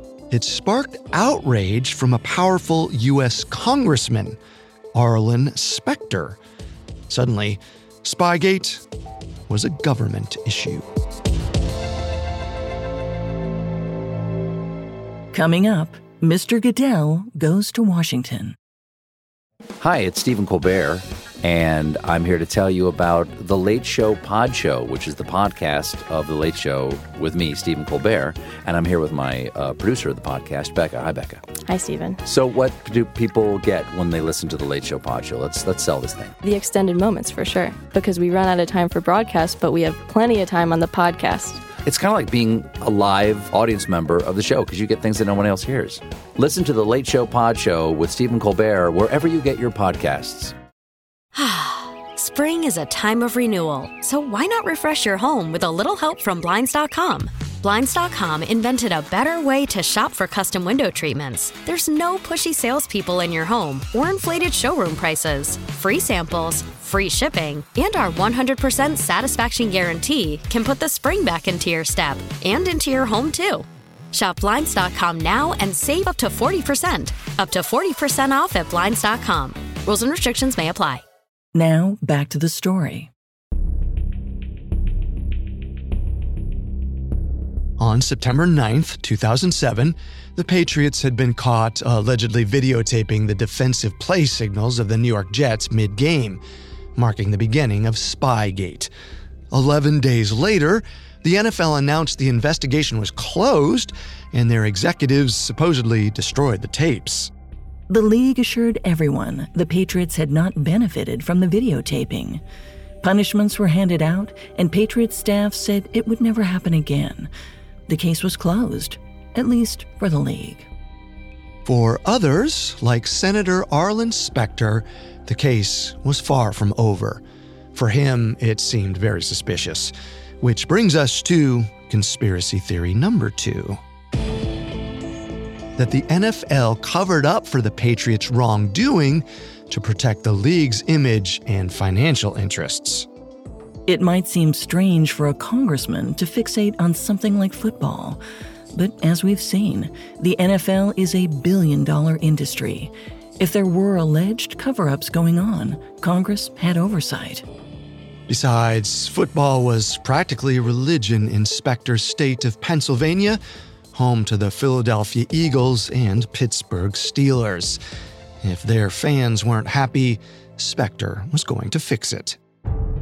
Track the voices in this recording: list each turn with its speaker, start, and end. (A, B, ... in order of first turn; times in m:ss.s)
0:00.3-0:04.4 A
0:04.9-0:06.4 A
0:07.1-0:08.8 A
0:09.5-0:10.9 A
0:15.3-0:18.6 B
0:19.8-0:31.5 C
0:31.6-0:32.2 D
0:32.2-0:36.3 C
0:36.4-0:41.6 D
0:41.8-0:50.5 C
0:51.3-1:21.0 E
1:21.6-1:23.1 B
1:27.8-1:36.4 A
1:37.0-1:38.9 A
1:39.5-1:47.3 A
1:47.9-1:52.4 B
1:53.0-1:57.3 B
1:57.9-2:00.7 B
2:01.6-2:07.2 A
2:07.7-2:13.8 A
2:15.8-2:23.1 A
2:23.9-2:28.2 B
2:28.7-2:37.4 B
2:38.3-2:43.4 A
2:43.9-2:47.8 A
2:48.4-2:52.4 A